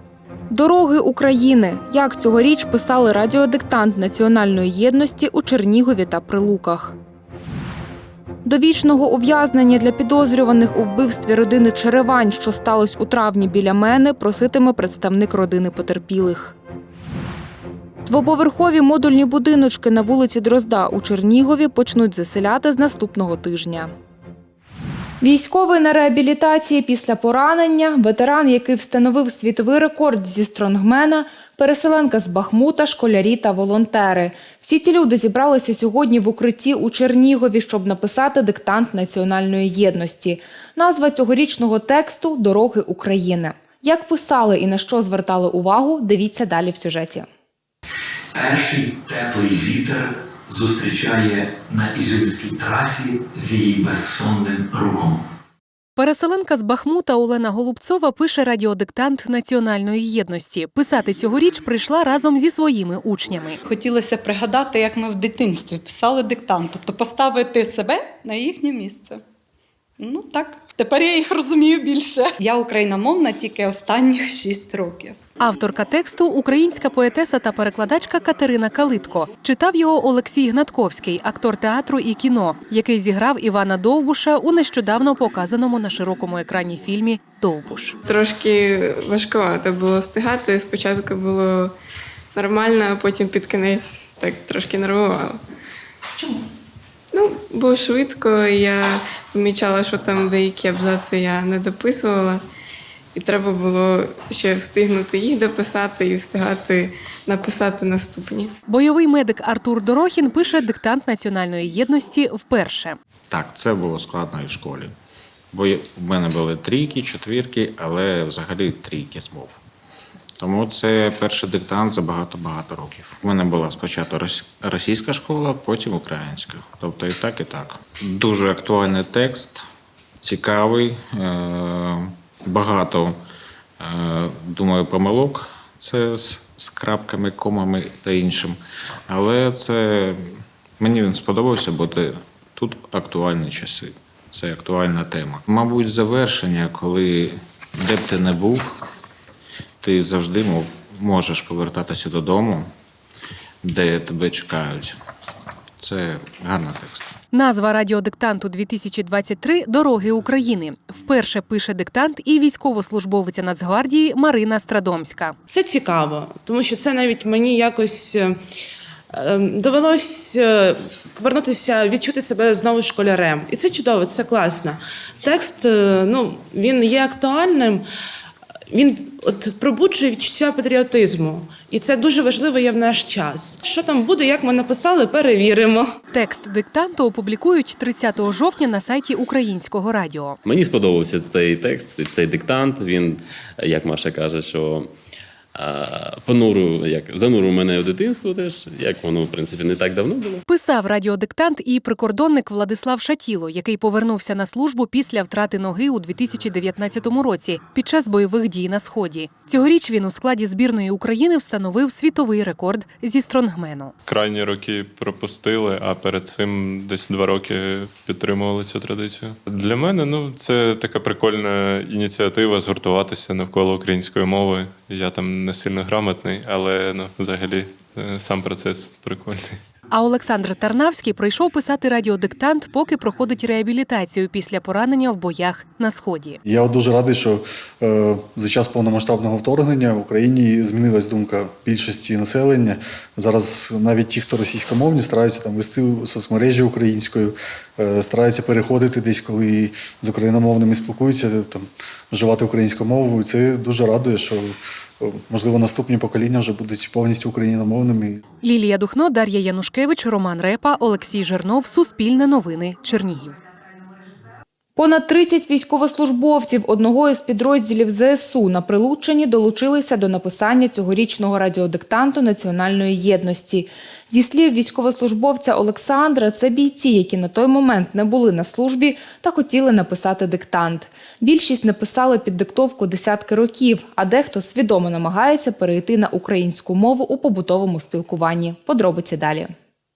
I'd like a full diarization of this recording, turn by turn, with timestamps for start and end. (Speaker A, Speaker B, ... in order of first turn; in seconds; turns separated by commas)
Speaker A: 0.5-7.0, Speaker A: 8.4-16.6, Speaker A: 18.1-23.9, Speaker A: 25.2-47.3, Speaker B: 48.4-49.9, Speaker B: 50.5-55.1, Speaker C: 56.0-63.6, Speaker D: 63.7-69.2, Speaker D: 70.0-75.1, Speaker C: 75.4-87.9, Speaker E: 88.0-91.7, Speaker E: 92.3-95.4, Speaker E: 97.1-102.4, Speaker E: 103.1-108.5, Speaker C: 108.7-113.0, Speaker F: 113.3-114.9, Speaker F: 115.5-119.6, Speaker F: 120.4-129.6, Speaker F: 130.2-133.2, Speaker F: 133.8-138.6, Speaker F: 139.1-140.2, Speaker F: 140.8-148.6, Speaker F: 149.8-152.7, Speaker F: 153.6-154.9, Speaker F: 155.8-157.1, Speaker C: 157.3-165.3, Speaker G: 165.5-168.4, Speaker G: 169.1-177.9, Speaker G: 178.7-185.9, Speaker C: 186.1-190.4, Speaker H: 190.4-194.9, Speaker H: 195.5-200.4, Speaker C: 200.5-213.9, Speaker I: 214.1-229.6, Speaker C: 229.9-236.4, Speaker J: 236.4-258.2, Speaker C: 258.4-263.3, Speaker A: 264.8-289.5